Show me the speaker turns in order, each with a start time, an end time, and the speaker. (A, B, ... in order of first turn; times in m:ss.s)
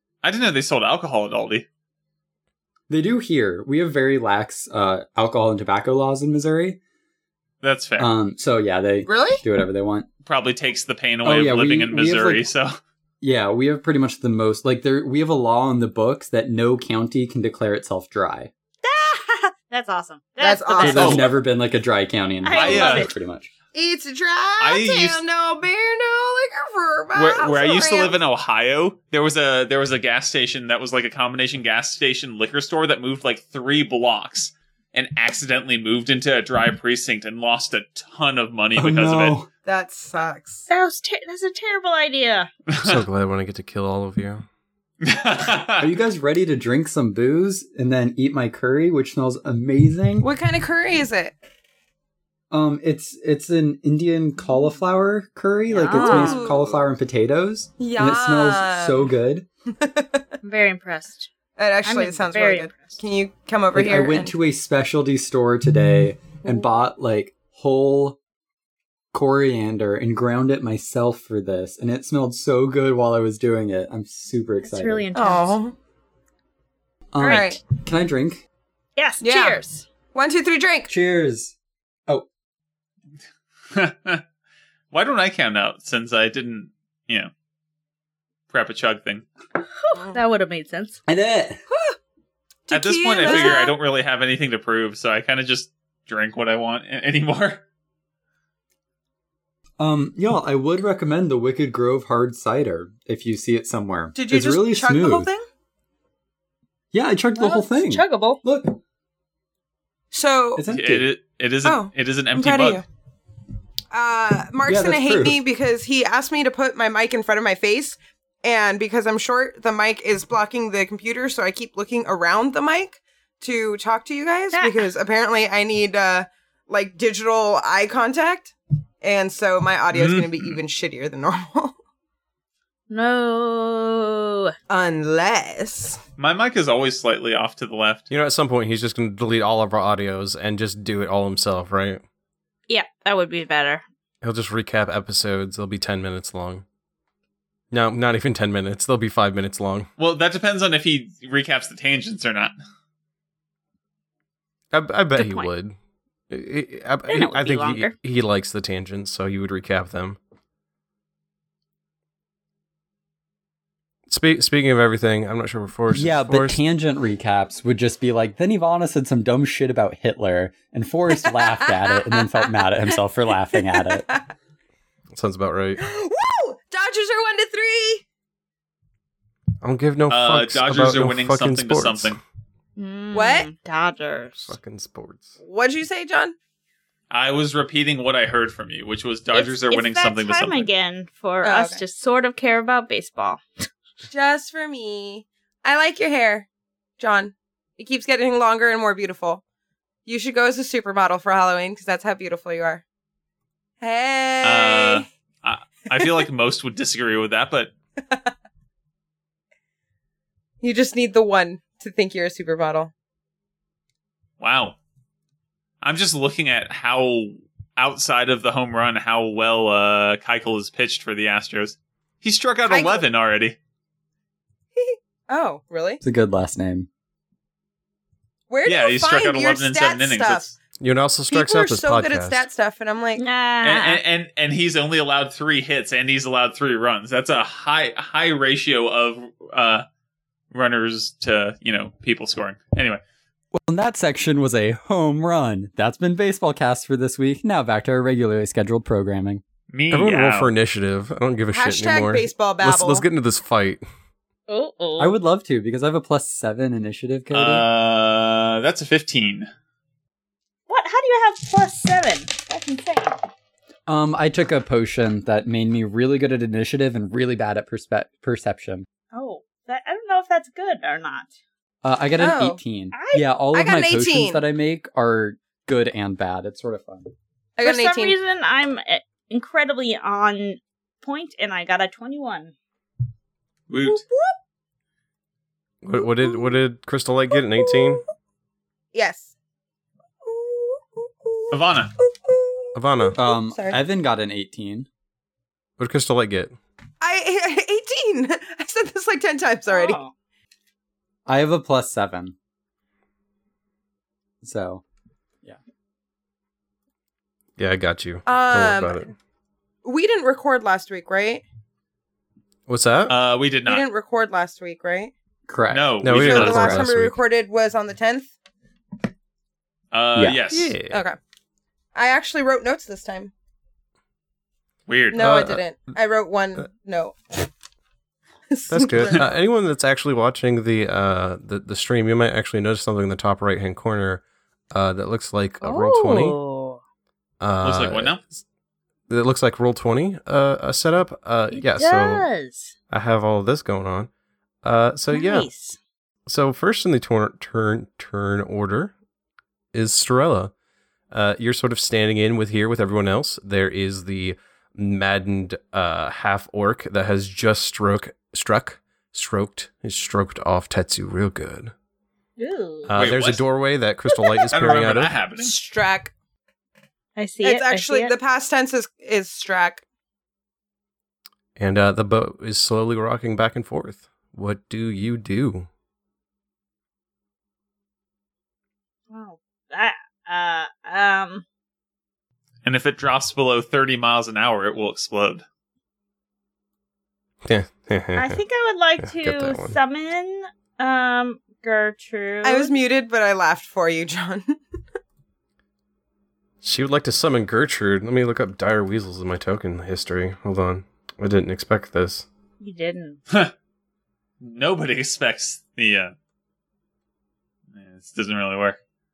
0:00.2-0:01.7 A
0:02.9-0:06.8 B
0:07.6-0:08.1 A
0:08.0-0:10.1 B
0:09.1-0:09.4 C
0:10.3-0:12.8 A
0:11.2-0:12.4 B
0:13.2-0:18.5 B
0:18.8-0:21.3 D
0:20.4-0:21.3 C
0:20.8-0:23.5 B
0:20.9-0:21.3 A
0:22.4-0:23.1 D
0:22.5-0:23.1 A
0:23.7-0:28.2 C
0:24.6-0:25.2 A
0:27.1-0:39.4 A
0:38.8-0:39.5 B
0:39.7-0:40.7 C
0:40.7-0:42.5 D
0:42.7-0:43.0 A
0:42.8-0:44.5 E
0:45.0-0:45.9 A
0:45.8-0:50.3 B
0:50.2-0:51.4 C
0:52.5-0:59.5 B
0:55.7-0:56.8 C
0:55.8-0:56.5 D
0:57.8-0:59.1 C
0:59.7-1:00.3 C
1:00.4-1:01.3 D
1:01.6-1:04.4 C
1:01.8-1:03.0 D
1:03.7-1:08.2 B
1:09.1-1:15.1 B
1:14.6-1:15.6 D
1:15.1-1:15.8 C
1:17.1-1:18.4 B
1:17.2-1:17.6 C
1:17.2-1:17.5 D
1:19.0-1:19.9 D
1:19.2-1:19.6 C
1:20.1-1:20.9 C
1:20.9-1:21.5 B
1:23.7-1:24.2 A
1:24.9-1:27.3 A
1:28.5-1:29.3 A
1:29.8-1:31.0 D
1:31.1-1:31.6 B
1:31.7-1:32.0 C
1:32.7-1:33.8 C
1:32.7-1:37.6 A
1:33.3-1:33.6 D
1:39.8-1:45.3 B
1:44.2-1:45.5 C
1:46.9-1:48.8 B
1:47.4-1:48.4 D
1:50.1-1:50.7 C
1:50.6-1:51.1 B
1:50.7-1:52.8 A
1:51.6-1:52.8 C
1:53.9-2:11.8 C
1:54.7-1:55.4 B
2:04.5-2:04.8 D
2:09.9-2:10.6 A
2:12.9-2:14.5 D
2:14.7-2:16.0 C
2:16.2-2:18.1 A
2:18.1-2:22.0 E
2:22.7-2:23.8 D
2:24.2-2:26.6 E
2:27.7-2:29.9 E
2:30.0-2:32.5 A
2:34.7-2:35.8 E
2:35.2-2:35.5 D
2:36.3-2:40.2 E
2:37.1-2:38.0 D
2:44.1-2:46.6 E
2:45.9-2:54.1 B
2:51.3-2:52.6 C
2:53.5-2:54.3 C
2:55.1-2:55.8 E
2:55.8-2:58.0 C
2:59.6-3:02.2 E
3:00.1-3:02.2 A
3:02.8-3:04.5 D
3:03.1-3:03.5 C
3:04.4-3:05.4 E
3:05.4-3:06.4 C
3:07.1-3:10.7 A
3:09.3-3:13.7 D
3:11.4-3:11.8 C
3:14.1-3:16.5 C
3:17.0-3:19.4 C
3:20.1-3:22.8 C
3:23.8-3:25.1 C
3:24.4-3:27.7 A
3:28.0-3:28.3 C
3:30.6-3:32.9 C
3:34.4-3:34.8 A
3:35.8-3:43.6 A
3:42.6-3:43.0 C
3:44.8-3:46.0 C
3:46.0-3:46.9 B
3:48.5-3:50.5 C
3:48.6-3:50.6 A
3:50.8-3:52.5 E
3:51.3-3:53.2 C
3:53.2-3:54.0 D
3:53.6-3:59.9 A
4:00.5-4:03.0 A
4:03.5-4:09.4 B
4:09.7-4:10.5 A
4:09.9-4:13.9 E
4:11.5-4:13.1 C
4:14.5-4:15.2 D
4:15.0-4:17.6 B
4:17.3-4:19.5 A
4:20.7-4:23.2 D
4:23.9-4:28.9 B
4:29.1-4:31.3 D
4:31.8-4:37.1 B
4:32.2-4:32.6 C
4:32.9-4:33.3 D
4:33.5-4:34.4 C
4:37.6-4:38.2 C
4:37.6-4:42.5 D
4:43.7-4:44.0 A
4:43.8-4:44.4 C
4:45.8-4:48.0 E
4:45.9-4:46.5 C
4:47.4-4:48.0 C
4:48.9-4:49.3 C
4:50.2-4:53.8 C
4:51.5-4:51.9 A
4:52.8-4:53.2 E
4:53.2-4:54.9 B
4:55.8-4:56.6 E
4:57.0-5:00.0 C
4:59.7-5:00.1 D
5:01.3-5:02.4 B
5:04.4-5:04.8 B
5:07.6-5:09.1 E
5:08.3-5:09.1 C
5:09.8-5:11.4 C
5:12.7-5:13.2 E
5:13.1-5:13.9 A
5:13.7-5:15.1 C
5:15.5-5:16.9 B
5:15.7-5:16.6 A
5:16.0-5:17.2 E
5:16.1-5:18.3 C
5:19.9-5:20.8 A
5:20.2-5:20.4 B
5:20.5-5:21.0 E
5:20.8-5:21.2 C
5:22.0-5:23.3 C
5:24.9-5:25.3 A
5:25.1-5:27.4 C
5:25.2-5:25.6 E
5:28.5-5:29.3 C
5:28.7-5:36.4 E
5:35.6-5:36.8 D
5:37.4-5:38.2 E
5:37.6-5:38.2 A
5:39.1-5:42.3 E
5:41.5-5:42.8 D
5:42.9-5:44.1 E
5:44.6-5:45.5 E
5:45.1-5:45.8 D
5:46.3-5:48.9 E
5:49.7-5:50.5 E
5:51.1-6:01.7 E
6:02.4-6:02.9 D
6:02.9-6:05.2 E
6:03.0-6:03.4 A
6:04.5-6:05.6 A
6:05.4-6:06.1 C
6:07.2-6:08.2 D
6:07.4-6:09.8 C
6:11.6-6:15.7 E
6:19.1-6:21.4 D
6:22.6-6:25.4 A
6:27.4-6:28.4 E
6:28.2-6:32.7 D
6:29.0-6:29.8 E
6:32.4-6:34.6 C
6:36.6-6:42.3 E
6:42.6-6:43.2 D
6:44.4-6:46.1 A
6:47.8-6:48.8 A